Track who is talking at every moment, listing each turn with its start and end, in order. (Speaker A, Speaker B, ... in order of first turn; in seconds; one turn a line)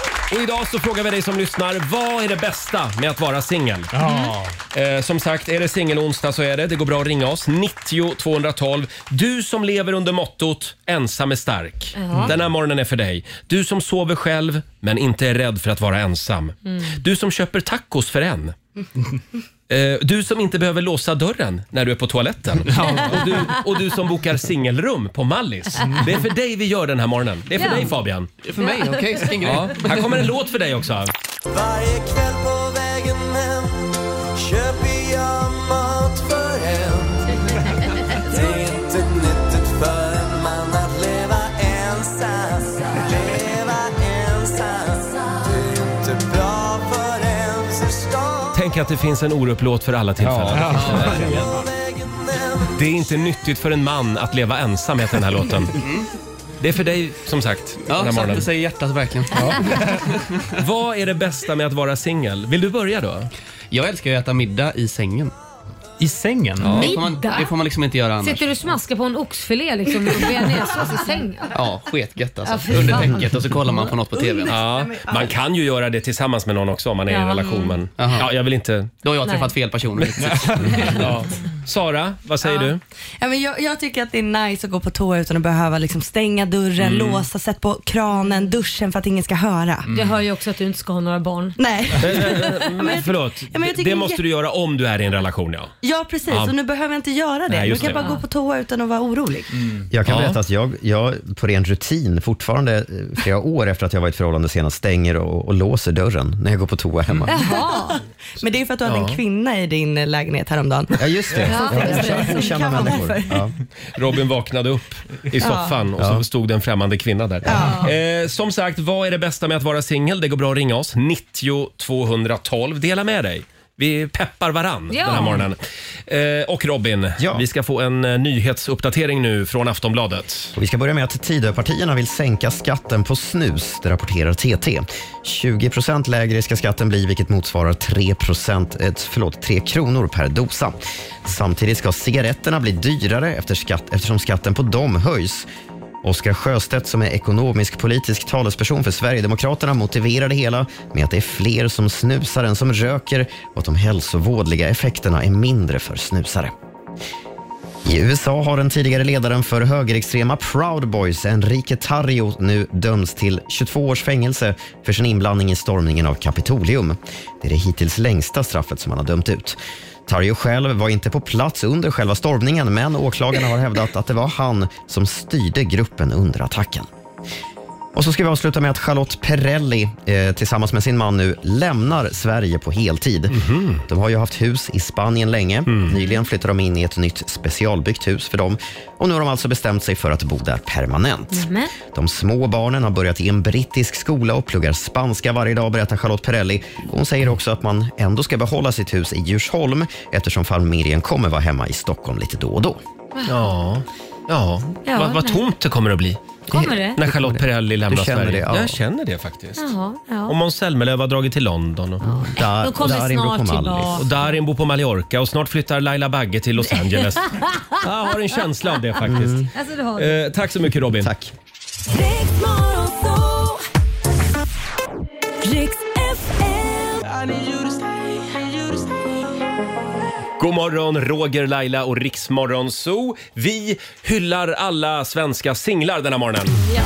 Speaker A: 0.3-3.9
Speaker B: 3.9-4.6
Speaker C: 4.0-4.4
Speaker A: 4.7-18.6
Speaker C: 12.0-12.3
Speaker A: 19.7-28.3
Speaker B: 22.6-23.3
Speaker C: 22.8-23.3
Speaker C: 27.6-27.9
Speaker D: 28.4-30.3
Speaker C: 28.6-29.2
Speaker A: 29.4-31.1
Speaker E: 31.5-37.4
Speaker E: 38.2-48.6
Speaker A: 48.5-51.3
Speaker D: 50.3-51.5
Speaker B: 50.5-51.6
Speaker E: 51.2-53.2
Speaker A: 52.7-55.7
Speaker D: 55.8-56.1
Speaker A: 56.6-58.5
Speaker D: 57.9-60.0
Speaker A: 60.6-63.3
Speaker D: 63.7-65.3
Speaker B: 66.0-66.9
Speaker D: 66.6-68.5
Speaker C: 66.8-67.5
Speaker C: 68.2-71.6
Speaker D: 71.5-74.6
Speaker C: 72.4-73.2
Speaker F: 74.2-75.3
Speaker A: 74.5-78.9
Speaker C: 77.1-77.8
Speaker D: 78.0-78.3
Speaker D: 79.0-81.3
Speaker C: 79.2-79.5
Speaker A: 80.0-82.8
Speaker B: 80.2-81.1
Speaker F: 82.4-89.9
Speaker A: 86.8-87.2
Speaker B: 89.9-90.2
Speaker C: 89.9-92.4
Speaker F: 91.6-94.2
Speaker A: 92.0-95.7
Speaker F: 95.8-99.7
Speaker A: 96.3-96.5
Speaker A: 97.5-98.0
Speaker C: 97.8-98.2
Speaker G: 99.9-107.5
Speaker A: 100.1-100.4
Speaker C: 107.3-108.0
Speaker F: 107.3-113.4
Speaker A: 108.8-109.2
Speaker G: 111.0-113.5
Speaker C: 111.5-113.0
Speaker A: 114.0-130.5
Speaker F: 115.4-115.7
Speaker G: 116.0-116.2
Speaker F: 117.5-117.9
Speaker C: 124.9-125.4
Speaker G: 127.2-127.4
Speaker G: 130.6-145.5
Speaker G: 146.0-156.5
Speaker G: 157.8-176.9
Speaker G: 177.9-202.8
Speaker A: 183.3-183.8
Speaker A: 185.7-186.0
Speaker C: 191.3-191.7
Speaker A: 203.3-206.2
Speaker C: 204.8-205.5
Speaker C: 206.5-207.0
Speaker G: 206.5-208.8
Speaker A: 207.0-209.7
Speaker C: 209.6-210.3
Speaker A: 210.3-212.0
Speaker C: 212.0-214.1
Speaker G: 212.3-214.0
Speaker A: 214.0-221.1
Speaker G: 219.1-219.5
Speaker C: 219.5-220.2
Speaker G: 221.0-221.3
Speaker F: 221.9-223.6
Speaker F: 225.4-227.0
Speaker A: 230.4-236.6